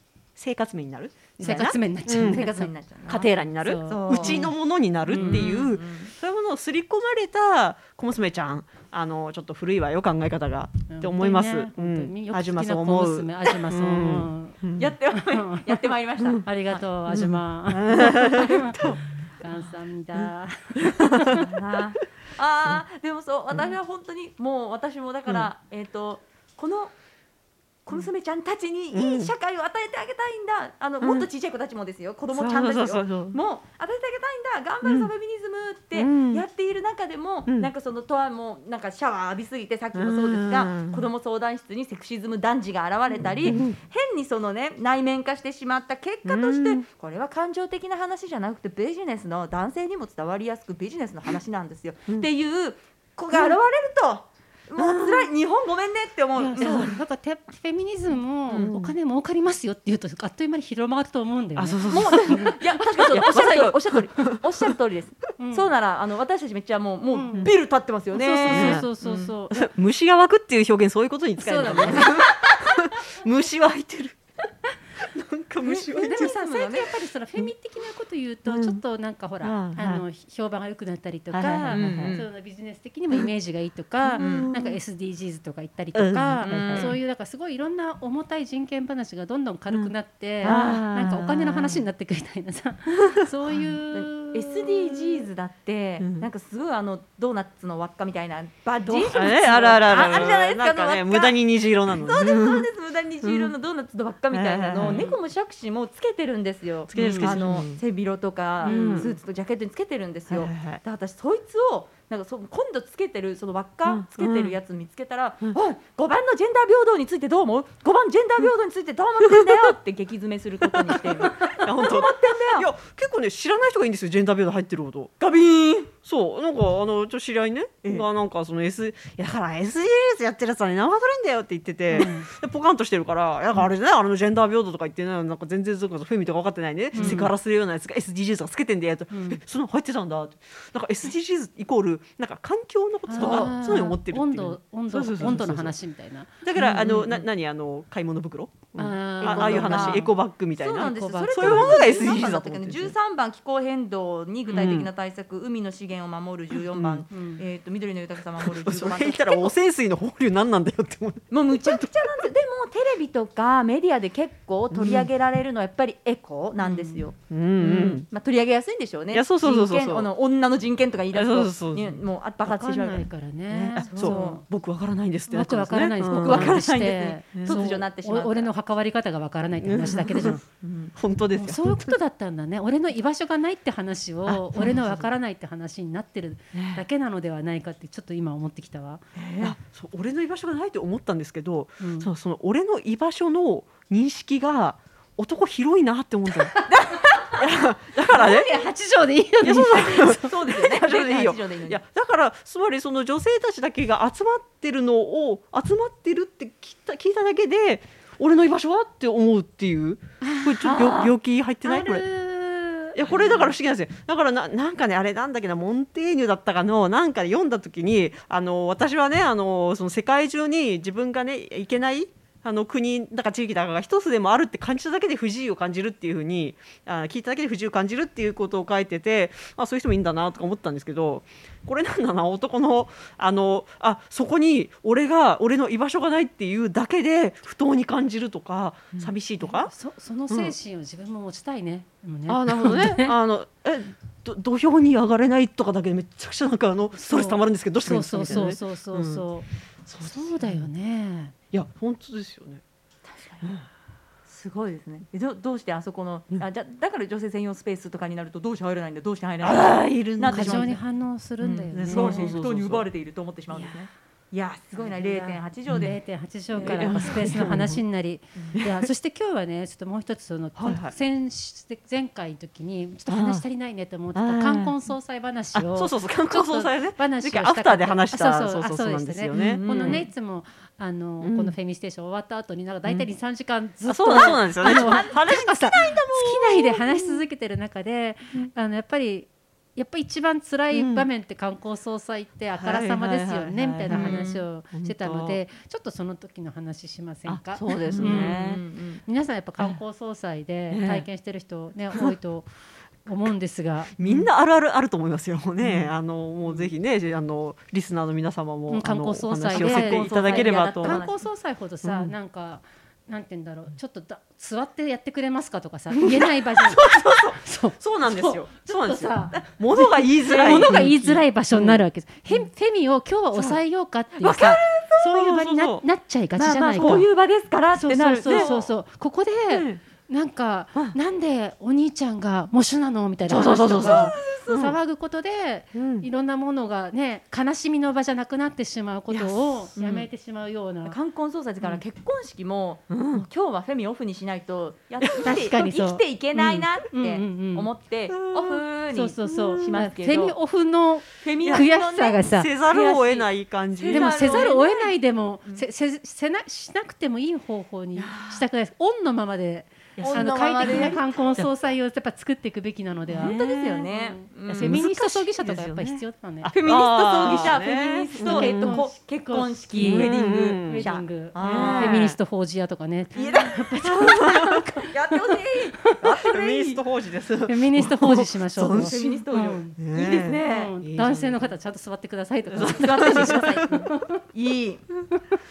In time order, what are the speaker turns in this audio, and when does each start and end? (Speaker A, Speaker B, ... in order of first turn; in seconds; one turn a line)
Speaker A: 0.4-2.5
Speaker B: 1.4-4.5
Speaker C: 2.1-3.3
Speaker A: 3.1-14.9
Speaker C: 3.9-4.5
Speaker B: 5.1-5.5
Speaker C: 5.1-6.1
Speaker B: 10.9-15.8
Speaker C: 14.8-16.8
Speaker B: 16.4-18.8
Speaker A: 17.1-19.0
Speaker B: 19.4-21.5
Speaker A: 20.2-21.5
Speaker C: 21.3-26.9
Speaker C: 27.9-57.0
Speaker A: 28.9-29.3
Speaker A: 31.0-31.3
Speaker A: 32.3-33.4
Speaker A: 34.8-35.1
Speaker A: 35.9-36.5
Speaker A: 39.9-41.1
Speaker A: 43.4-43.8
Speaker A: 46.2-46.9
Speaker A: 53.3-53.6
Speaker A: 54.8-55.3
Speaker B: 56.4-63.4
Speaker A: 56.4-57.0
Speaker A: 58.5-59.0
Speaker A: 61.6-64.7
Speaker C: 61.9-69.3
Speaker B: 65.4-65.7
Speaker B: 67.1-67.5
Speaker B: 68.1-69.7
Speaker A: 68.5-68.9
Speaker A: 69.5-74.2
Speaker B: 71.4-72.2
Speaker C: 71.8-72.3
Speaker A: 75.0-76.3
Speaker C: 75.6-76.9
Speaker B: 76.0-94.7
Speaker A: 78.5-78.8
Speaker A: 79.4-80.0
Speaker A: 81.3-82.2
Speaker C: 81.7-82.3
Speaker A: 84.0-84.8
Speaker C: 84.2-84.5
Speaker A: 86.0-87.0
Speaker C: 86.4-87.0
Speaker A: 89.7-91.8
Speaker C: 90.4-91.2
Speaker A: 93.1-93.6
Speaker C: 93.9-122.7
Speaker A: 96.0-96.3
Speaker A: 99.0-102.7
Speaker A: 103.2-103.5
Speaker A: 104.3-105.1
Speaker B: 104.8-105.2
Speaker A: 106.9-107.8
Speaker B: 107.0-107.4
Speaker B: 108.6-109.2
Speaker A: 108.6-109.1
Speaker A: 110.3-110.8
Speaker A: 113.9-114.6
Speaker A: 120.7-125.1
Speaker C: 125.2-125.9
Speaker A: 126.0-145.7
Speaker B: 131.9-132.3
Speaker B: 136.9-137.3
Speaker C: 136.9-137.3
Speaker B: 139.1-139.4
Speaker B: 143.1-146.4
Speaker C: 143.1-143.6
Speaker A: 146.4-152.9
Speaker C: 146.6-147.2
Speaker B: 148.8-150.1
Speaker C: 149.2-159.5
Speaker B: 150.8-152.1
Speaker A: 154.5-154.9
Speaker A: 156.6-157.1
Speaker B: 157.1-157.4
Speaker A: 158.4-162.3
Speaker C: 161.3-173.1
Speaker A: 164.7-165.1
Speaker B: 166.6-167.0
Speaker A: 167.3-168.1
Speaker A: 169.1-170.1
Speaker A: 171.1-172.0
Speaker B: 172.4-174.4
Speaker A: 173.5-176.7
Speaker C: 173.8-174.4
Speaker B: 175.3-180.4
Speaker C: 176.1-178.5
Speaker A: 177.3-177.7
Speaker A: 179.6-180.4
Speaker C: 180.6-180.9
Speaker A: 180.9-182.0
Speaker B: 181.3-189.0
Speaker A: 184.3-185.1
Speaker A: 186.5-186.8
Speaker C: 189.2-189.6
Speaker A: 189.4-196.7
Speaker B: 191.8-192.1
Speaker B: 196.6-196.9
Speaker C: 196.7-197.3
Speaker A: 197.3-198.6
Speaker B: 198.1-200.3
Speaker A: 199.4-212.1
Speaker C: 199.8-201.8
Speaker B: 210.2-211.0
Speaker C: 210.6-211.1
Speaker B: 211.7-213.0
Speaker A: 212.9-239.7
Speaker C: 213.1-213.4
Speaker B: 239.4-243.2
Speaker A: 240.3-240.6
Speaker A: 242.3-249.3
Speaker B: 247.0-251.3
Speaker A: 249.8-250.7
Speaker A: 251.5-252.6
Speaker C: 253.1-253.5
Speaker A: 253.4-253.7
Speaker C: 254.3-260.8
Speaker A: 259.4-260.8
Speaker B: 260.3-262.4
Speaker C: 261.4-265.9
Speaker A: 261.7-262.9
Speaker A: 263.5-263.9
Speaker B: 264.8-298.4
Speaker A: 265.7-265.9
Speaker C: 266.5-267.2
Speaker A: 266.6-267.8
Speaker A: 268.6-268.9
Speaker A: 270.6-270.9
Speaker A: 273.1-273.4
Speaker A: 274.1-274.8
Speaker A: 275.5-280.1
Speaker C: 279.3-280.1
Speaker A: 281.2-281.6
Speaker A: 283.9-287.2
Speaker C: 284.1-286.0
Speaker A: 290.7-291.1
Speaker A: 292.6-295.4
Speaker C: 293.9-294.4
Speaker A: 297.3-298.6
Speaker C: 297.6-299.0
Speaker B: 299.1-302.5
Speaker A: 300.7-301.1
Speaker B: 303.1-303.9
Speaker A: 304.0-311.0
Speaker C: 305.6-305.9
Speaker B: 308.7-327.1
Speaker C: 309.5-311.2
Speaker A: 311.8-312.1
Speaker A: 315.9-321.8
Speaker C: 320.3-320.9
Speaker A: 323.3-323.6
Speaker C: 324.2-325.0
Speaker A: 324.2-325.9
Speaker C: 326.4-328.7
Speaker A: 326.8-327.1
Speaker B: 327.7-341.0
Speaker A: 328.2-328.6
Speaker A: 329.5-329.8
Speaker A: 333.3-334.8
Speaker C: 333.3-334.6
Speaker A: 335.7-336.1
Speaker C: 339.8-340.1
Speaker C: 340.9-350.4
Speaker A: 342.9-343.3
Speaker A: 345.0-345.4
Speaker B: 345.2-346.0
Speaker A: 346.4-346.7
Speaker B: 346.9-347.7
Speaker A: 348.1-348.7
Speaker B: 348.9-352.5
Speaker A: 349.3-349.8
Speaker C: 351.2-355.6
Speaker A: 351.4-351.7
Speaker A: 352.2-354.5
Speaker B: 353.9-366.5
Speaker A: 358.0-358.5
Speaker A: 360.0-361.5
Speaker C: 360.0-361.2
Speaker A: 363.1-363.9
Speaker C: 363.2-364.8
Speaker A: 364.5-368.8
Speaker C: 366.5-372.1
Speaker B: 368.2-376.0
Speaker A: 369.8-372.2
Speaker C: 373.1-374.2
Speaker A: 373.8-374.6
Speaker C: 374.8-376.8
Speaker A: 376.0-379.2
Speaker B: 377.5-379.8
Speaker C: 378.6-380.7
Speaker A: 379.8-381.5
Speaker B: 380.4-384.2
Speaker A: 382.5-383.9
Speaker C: 382.6-384.9